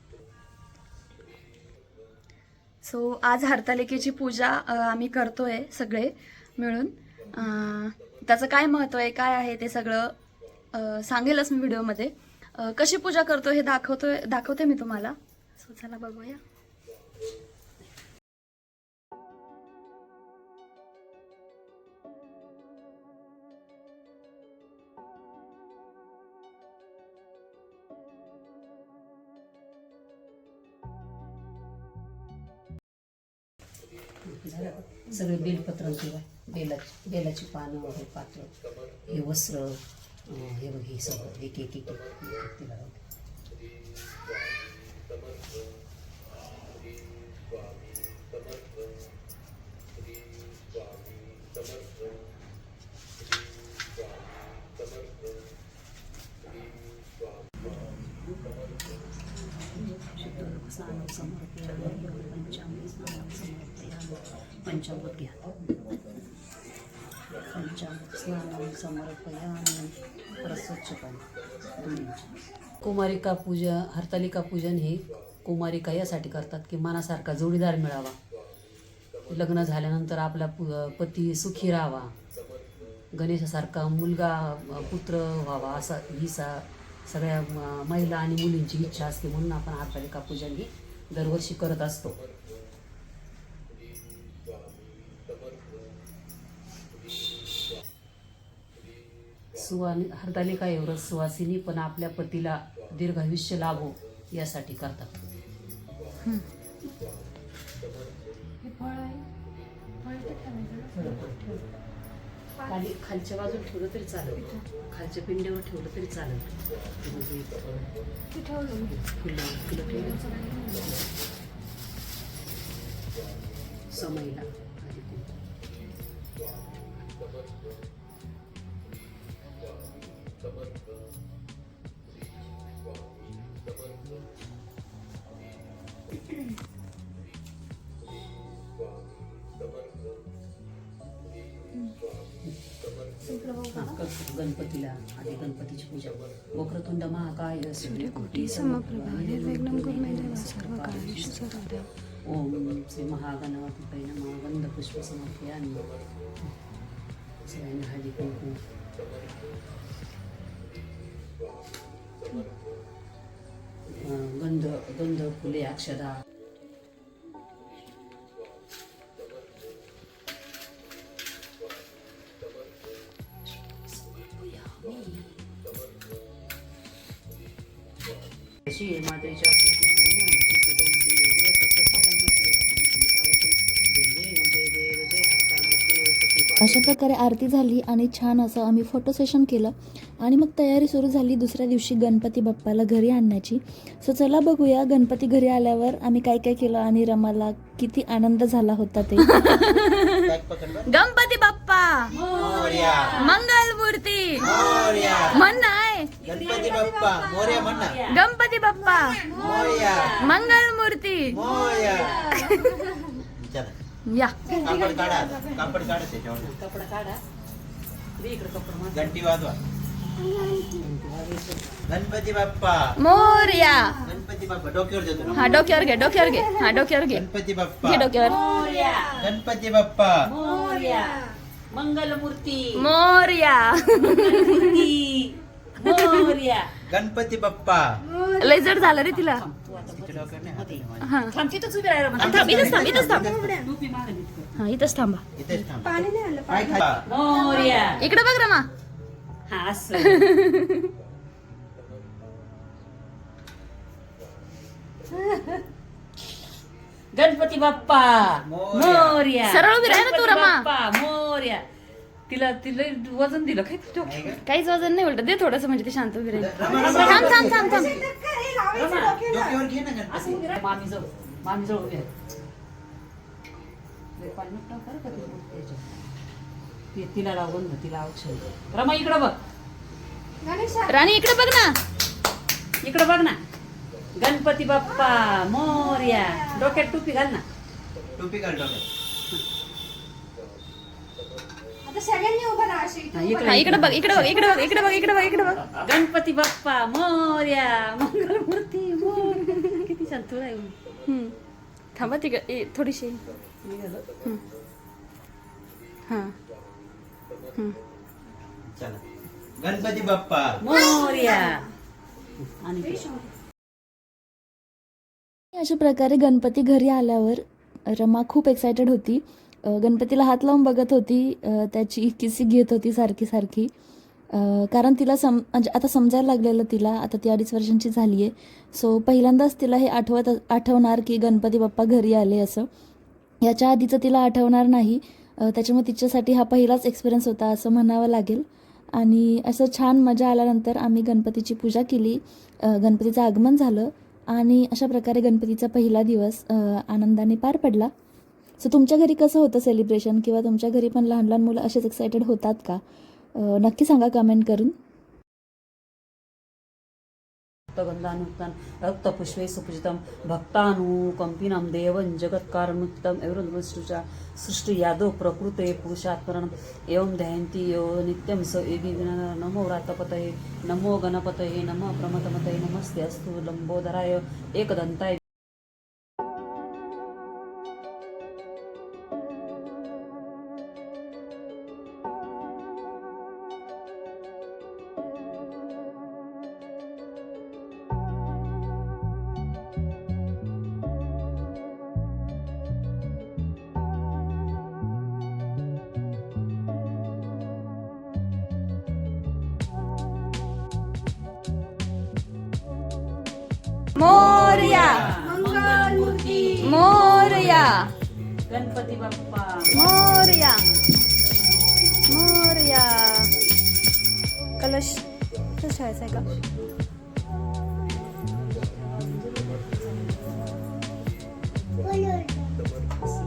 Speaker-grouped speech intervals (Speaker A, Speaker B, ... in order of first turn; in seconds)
Speaker A: 2.8-10.1, 10.7-16.4, 199.2-202.1, 203.1-204.5, 205.2-206.1, 208.1-209.3, 210.2-211.4, 212.2-212.8, 214.1-214.6, 223.0-224.0, 225.3-227.2, 227.8-228.4, 232.8-234.8, 235.8-236.3, 238.4-239.4, 241.0-241.3, 242.2-243.3, 244.6-245.3, 248.0-248.7, 250.0-250.9, 259.5-260.6, 264.4-268.0, 280.9-281.8, 293.4-295.6, 301.1-301.3, 301.9-303.2, 306.1-306.3, 403.9-405.1, 406.6-407.9, 409.7-410.6, 412.1-413.3, 414.6-415.0, 415.6-416.2
Speaker B: 34.2-38.5, 39.0-43.0, 57.7-58.3, 59.5-65.5, 67.5-78.2, 79.3-82.1, 83.1-92.2, 99.5-105.1, 110.9-111.6, 112.6-117.9, 118.8-121.0, 123.9-125.3, 143.7-155.9, 157.4-158.6, 163.9-166.2, 174.0-175.4, 178.7-187.0, 202.1-203.4, 204.5-205.6, 206.2-208.2, 209.3-210.4, 216.4-217.2, 218.2-219.3, 220.8-221.9, 228.1-229.2, 230.2-232.9, 233.9-236.7, 238.7-244.6, 247.0-248.0, 249.5-250.3, 255.1-255.6, 257.1-261.6, 262.3-264.4, 266.3-267.9, 268.7-269.2, 270.1-272.1, 274.2-276.0, 276.9-279.4, 282.8-283.4, 284.1-287.4, 293.1-294.4, 295.4-300.7, 303.6-304.0, 310.6-311.7, 312.4-313.1, 357.7-375.2, 404.1-407.7, 408.5-410.5, 418.6-420.2
Speaker C: 108.6-109.2, 110.0-111.1, 118.3-118.9, 120.0-120.7, 143.3-143.9, 147.9-151.9, 202.2-202.9, 204.4-205.2, 206.5-207.8, 208.8-210.6, 211.4-213.2, 214.4-216.0, 220.2-220.8, 223.1-224.2, 225.3-226.9, 228.4-229.3, 230.4-231.4, 238.1-238.9, 243.1-243.7, 245.5-248.0, 266.6-269.7, 280.4-281.0, 285.7-286.7, 291.8-293.5, 294.3-295.5, 310.7-311.7, 312.9-313.2, 405.1-406.6, 415.8-416.2, 421.9-422.5
Speaker D: 186.6-199.3, 315.5-323.7, 324.3-332.7, 333.4-347.9, 348.6-352.8, 353.3-354.7
Speaker E: 200.2-200.9, 202.1-203.2, 204.4-205.4, 206.2-208.0, 209.4-210.2, 211.3-212.2, 213.3-213.7, 214.5-216.5, 218.9-219.6, 221.9-222.9, 224.0-225.6, 227.1-228.1, 229.2-230.2, 236.8-237.9, 239.8-241.1, 242.2-243.5, 245.4-247.0, 258.4-259.2, 264.0-264.4, 266.4-267.7, 269.2-270.4, 288.1-288.8, 308.6-309.0, 309.6-310.6, 404.0-405.1